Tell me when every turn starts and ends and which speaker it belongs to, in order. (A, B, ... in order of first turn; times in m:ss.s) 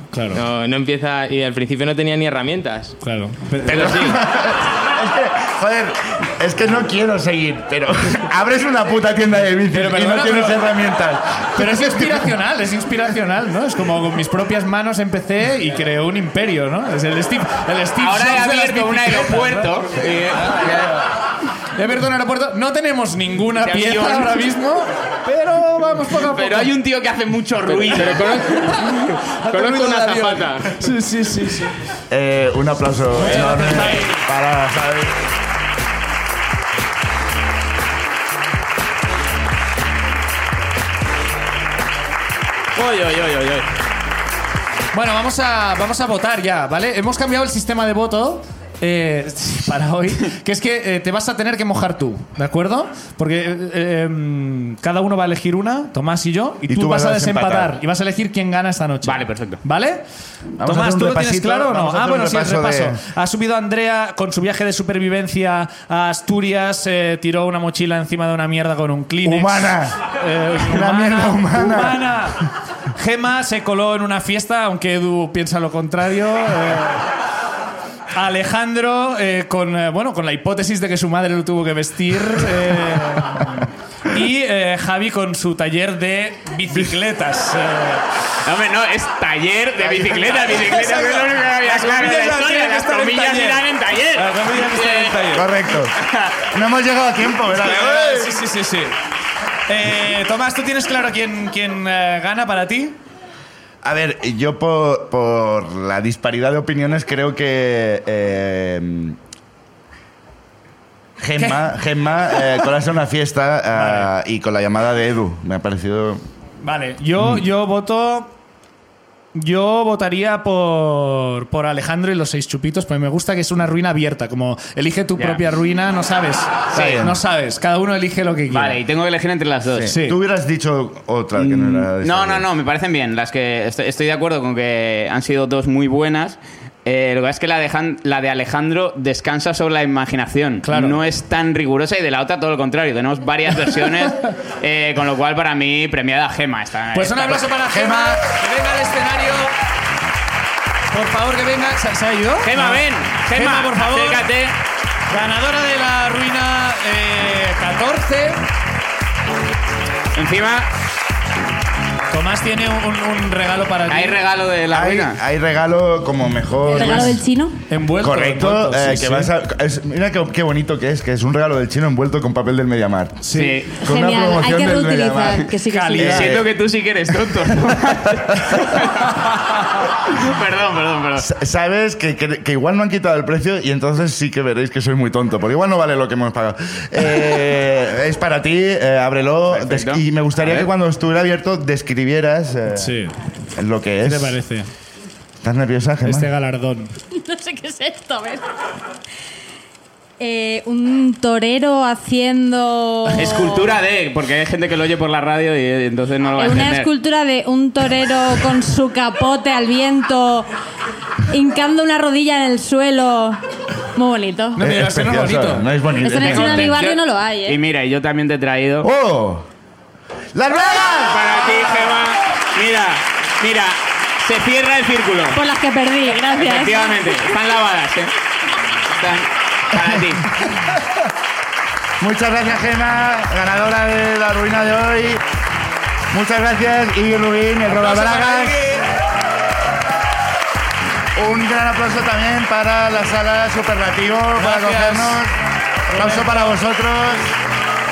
0:00.1-0:00.4 A
0:00.3-0:03.0 B
0:03.0-0:04.2 A
0:03.6-0:12.3 C
0:03.7-0:04.2 B
0:09.7-0:10.6 A
0:11.6-0:19.7 A
0:18.0-0:21.0 D
0:20.3-0:20.9 A
0:21.8-0:26.7 A
0:23.6-0:24.4 D
0:26.4-0:28.4 D
0:27.7-0:30.8 B
0:28.0-0:31.8 A
0:32.1-0:35.2 C
0:33.2-0:34.2 A
0:42.7-0:43.7 D
0:44.9-1:00.0 A
0:56.7-0:57.8 C
0:59.0-0:59.6 D
1:00.6-1:03.0 C
1:00.6-1:17.0 A
1:09.2-1:10.0 C
1:10.6-1:12.1 C
1:18.1-1:28.0 A
1:26.7-1:27.0 C
1:28.4-1:35.3 D
1:29.8-1:30.4 C
1:30.4-1:35.5 A
1:35.3-1:38.4 C
1:36.0-1:36.4 D
1:37.5-1:39.0 A
1:39.7-1:43.0 A
1:43.8-1:49.2 C
1:51.2-1:56.2 C
1:51.4-1:51.6 A
1:53.7-1:54.1 A
1:56.6-1:58.3 A
1:57.2-1:57.4 C
1:59.3-2:08.8 A
2:05.2-2:05.4 D
2:06.7-2:07.2 C
2:08.5-2:09.9 D
2:09.7-2:12.4 C
2:09.9-2:10.2 A
2:11.4-2:28.1 D
2:20.6-2:21.0 A
2:26.9-2:29.5 A
2:30.9-2:34.2 A
2:32.4-2:34.5 D
2:35.1-2:38.4 A
2:40.1-2:40.7 D
2:42.1-2:44.2 A
2:43.9-2:45.2 D
2:44.7-2:47.2 C
2:46.7-2:47.6 E
2:46.7-2:49.3 A
2:48.0-2:53.2 C
2:53.2-2:53.6 A
2:53.3-2:53.7 D
2:53.8-2:56.5 C
2:53.8-2:56.2 E
2:55.7-2:56.4 A
2:56.0-2:59.2 D
3:00.0-3:01.3 D
3:01.2-3:13.0 C
3:09.5-3:10.7 D
3:12.8-3:13.1 A
3:13.6-3:14.4 C
3:14.0-3:14.7 A
3:15.4-3:16.3 C
3:16.0-3:16.9 A
3:17.1-3:18.4 E
3:20.2-3:23.6 E
3:23.1-3:26.9 D
3:26.4-3:30.5 E
3:31.3-3:33.4 E
3:34.0-3:34.6 E
3:34.6-3:36.8 C
3:34.6-3:35.7 A
3:36.0-3:37.6 E
3:36.1-3:38.9 D
3:38.8-3:39.5 C
3:40.3-3:41.3 C
3:40.6-3:45.4 D
3:45.3-3:46.9 E
3:46.3-3:48.1 D
3:48.9-3:50.3 D
3:52.0-3:55.2 C
3:56.1-3:58.6 C
3:57.7-3:58.8 A
4:01.2-4:05.3 C
4:04.4-4:05.2 A
4:05.9-4:06.3 A
4:05.9-4:07.4 C